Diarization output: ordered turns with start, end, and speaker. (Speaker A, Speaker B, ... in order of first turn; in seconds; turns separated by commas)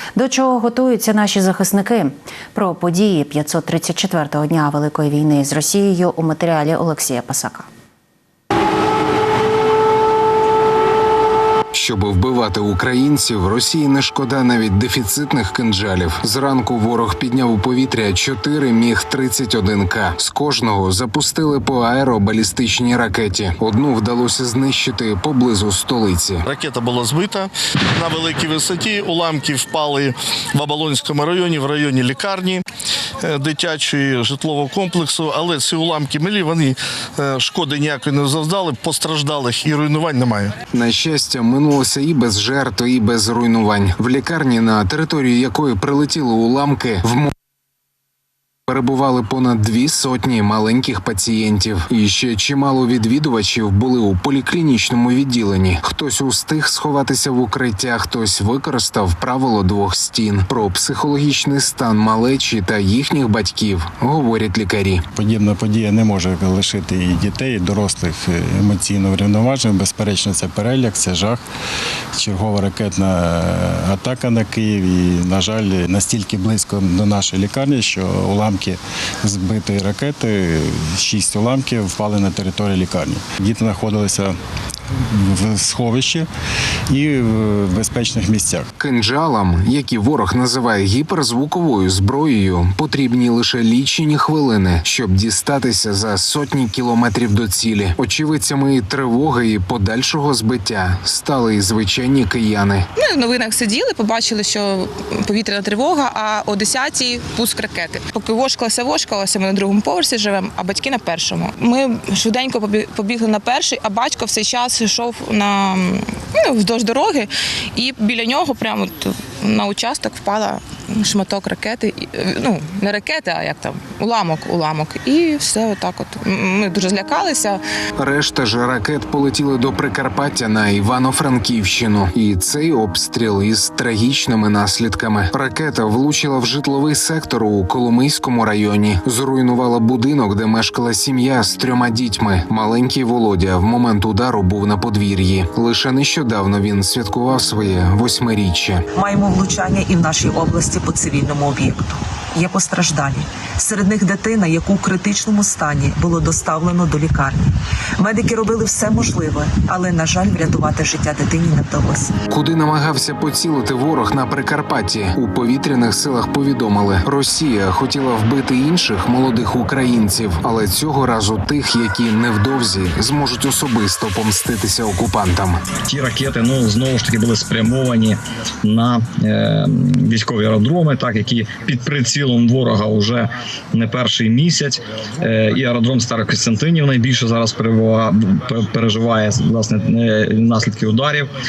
Speaker A: 0.1-7.7, Speaker B: 11.7-26.4, Speaker C: 26.5-27.4, Speaker C: 28.1-30.0, Speaker C: 30.6-32.6, Speaker C: 33.5-36.6, Speaker C: 37.4-40.5, Speaker B: 40.7-47.3, Speaker B: 48.7-65.0, Speaker D: 65.2-71.4, Speaker D: 72.2-84.3, Speaker D: 85.2-86.3, Speaker D: 86.9-88.7, Speaker B: 88.8-102.9, Speaker E: 103.0-127.6, Speaker B: 128.0-148.8, Speaker F: 148.9-157.4, Speaker F: 158.0-162.1, Speaker B: 162.3-175.6, Speaker G: 175.9-191.3